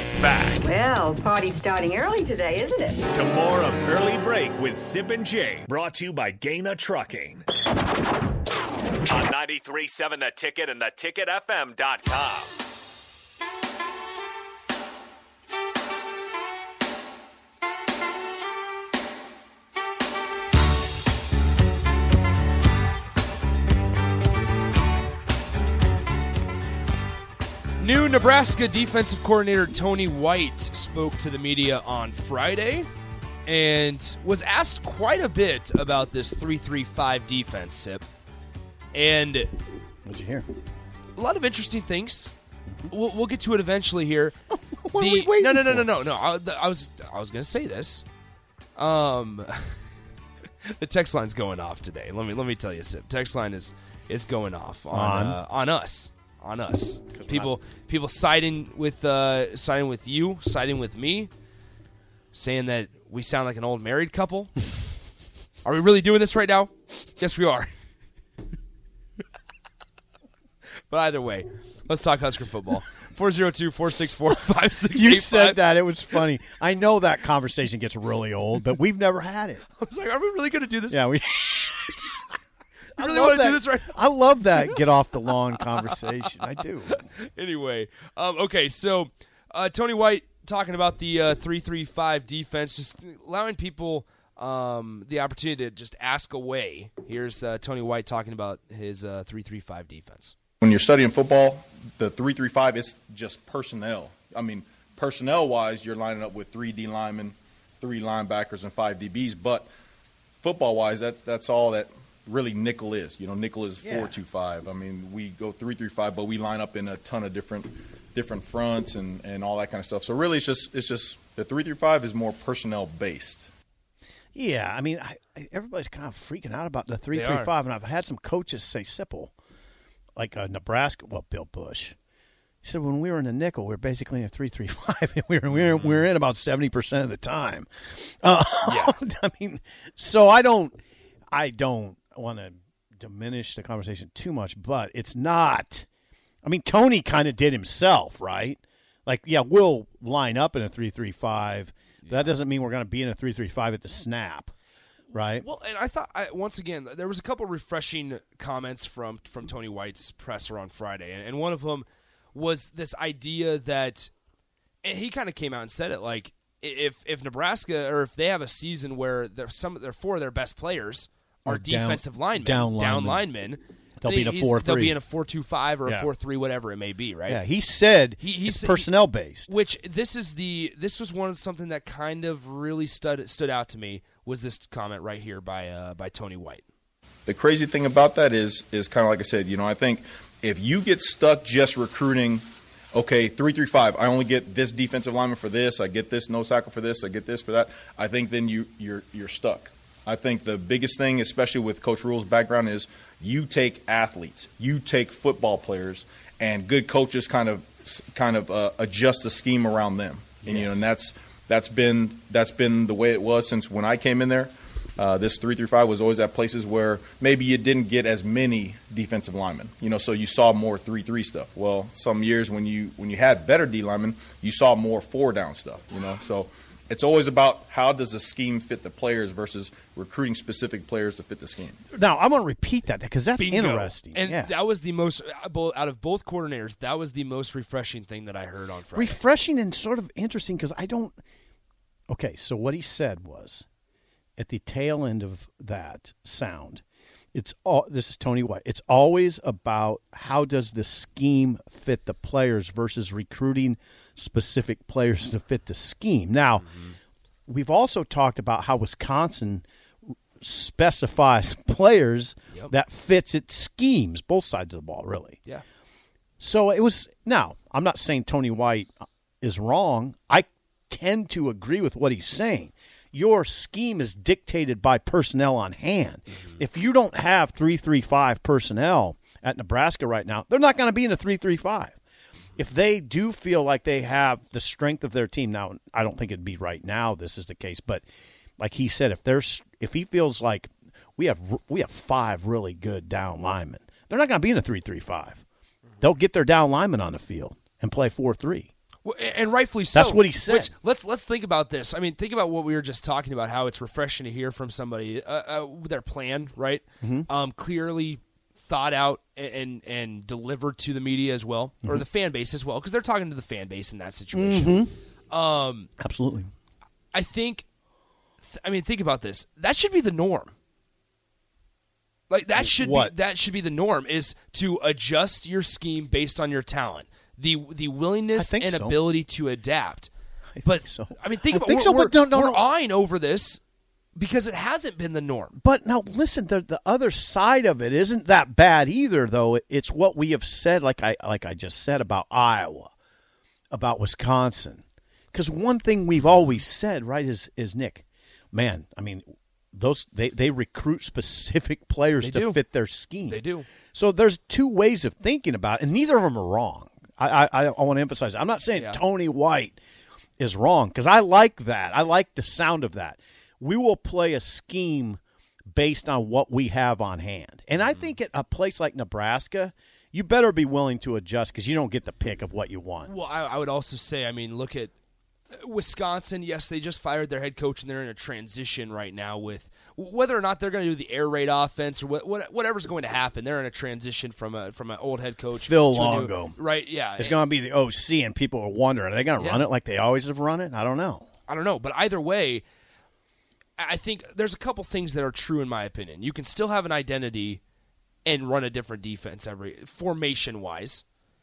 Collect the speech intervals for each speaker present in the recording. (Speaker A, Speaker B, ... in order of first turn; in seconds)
Speaker A: 0.2-0.8, 3.1-7.5, 9.0-12.5
Speaker B: 0.8-2.9
Speaker C: 27.8-32.9, 33.5-38.0, 38.9-39.5, 41.2-42.3, 42.9-44.4, 45.0-48.0, 48.8-49.7, 50.7-61.3, 62.3-64.5, 65.6-67.7, 70.9-75.6, 79.7-81.0, 83.0-84.0, 84.5-84.8, 85.6-86.6, 87.2-100.3, 127.1-127.5, 135.5-136.0, 138.7-139.0, 152.1-152.3, 155.4-164.1, 164.8-177.4, 178.2-178.9, 179.5-186.6, 233.4-239.2, 256.6-257.0, 299.0-315.9, 317.1-317.6, 318.5-320.5, 322.3-330.1, 330.6-333.6, 334.1-335.6, 352.2-352.6, 353.3-353.7, 358.8-359.0, 373.1-374.9, 375.5-387.4, 389.4-389.7, 391.5-392.6, 393.8-397.6, 398.2-401.0
Speaker D: 40.0-40.5, 44.5-45.9, 54.9-55.4, 57.1-57.5, 74.9-79.6, 80.9-82.0, 83.0-87.1, 113.8-114.2, 124.3-129.3, 130.2-131.9, 132.6-140.7, 141.3-145.9, 146.4-154.5, 155.1-155.5, 171.5-173.3, 174.0-175.0, 177.3-179.5, 210.4-210.8, 231.9-234.5, 238.9-241.2, 242.1-243.7, 244.4-246.8, 247.3-256.7, 257.5-259.6, 260.4-265.4, 266.4-282.0, 282.6-288.0, 288.6-295.4, 296.0-298.7, 299.9-300.7, 307.0-307.3, 314.3-314.9, 316.0-316.5, 322.6-323.1, 328.4-329.0, 330.6-332.7, 335.6-342.9, 343.7-359.8, 360.4-365.2, 365.7-373.1, 385.6-386.6, 387.2-391.2
Speaker E: 100.6-109.7, 110.4-123.5, 187.3-231.8